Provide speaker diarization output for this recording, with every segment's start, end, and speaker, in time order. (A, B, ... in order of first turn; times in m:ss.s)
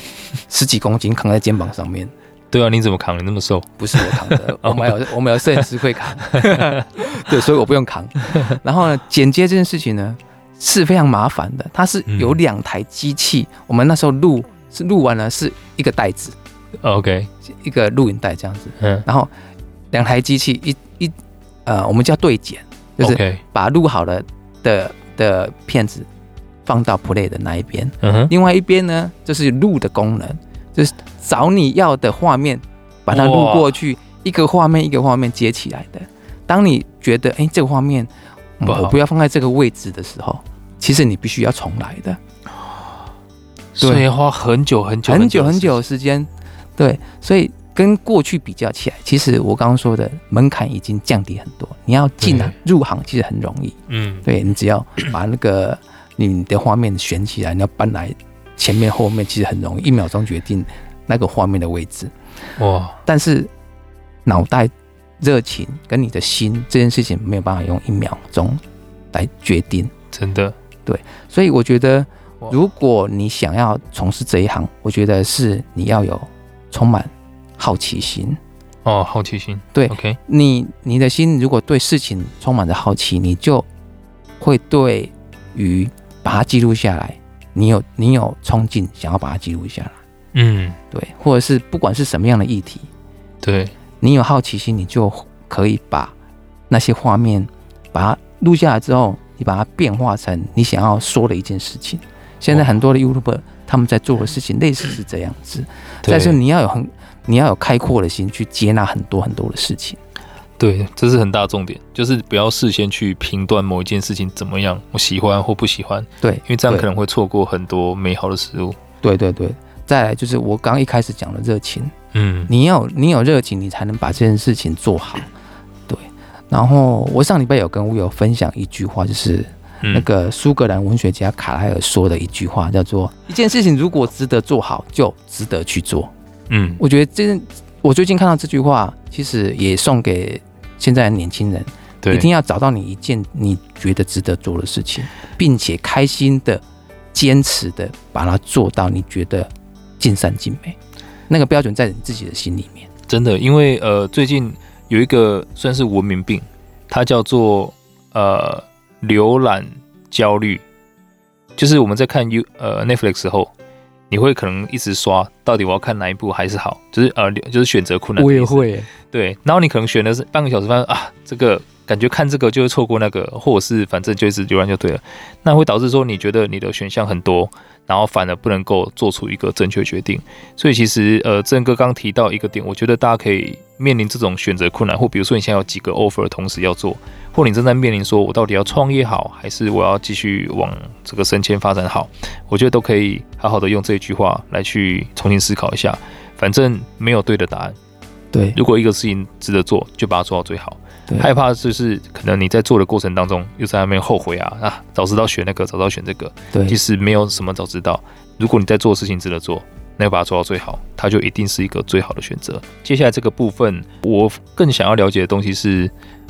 0:00.5-0:02.1 A
0:02.5-0:04.9 B
0:03.8-0:16.4 A
0:06.3-0:06.8 B
0:12.1-0:12.4 B
0:16.8-0:17.3 B
0:17.4-0:19.3 A
0:18.8-0:19.0 B
0:19.9-0:26.1 A
0:23.0-0:23.4 B
0:26.6-0:42.2 A
0:28.0-0:28.3 B
0:33.1-0:33.7 B
0:38.6-0:39.0 B
0:43.8-0:45.8 B
0:45.1-1:02.1 A
0:52.2-0:52.5 B
0:53.9-0:54.3 B
1:02.6-1:03.0 B
1:03.0-1:03.5 A
1:04.3-1:08.6 A
1:09.1-1:09.9 A
1:10.1-1:10.6 B
1:10.9-1:18.4 A
1:18.8-1:20.2 B
1:19.7-1:23.7 A
1:24.4-1:30.0 A
1:30.3-1:30.8 B
1:30.9-1:32.9 A
1:33.4-1:33.7 B
1:34.0-1:36.1 A
1:36.7-1:50.0 A
1:46.0-1:46.4 B
1:50.6-1:58.8 B
1:56.2-1:56.9 A
1:59.0-2:01.9 A
2:02.1-2:02.5 B
2:02.5-2:05.3 A
2:05.9-2:16.1 A
2:16.5-2:16.8 B
2:16.8-2:30.8 A
2:22.0-2:22.3 B
2:31.3-2:32.9 A
2:33.1-2:40.6 B
2:41.6-2:43.5 B
2:44.1-3:17.8 B
2:48.2-2:48.9 A
3:18.5-3:35.9 B
3:26.5-3:26.8 A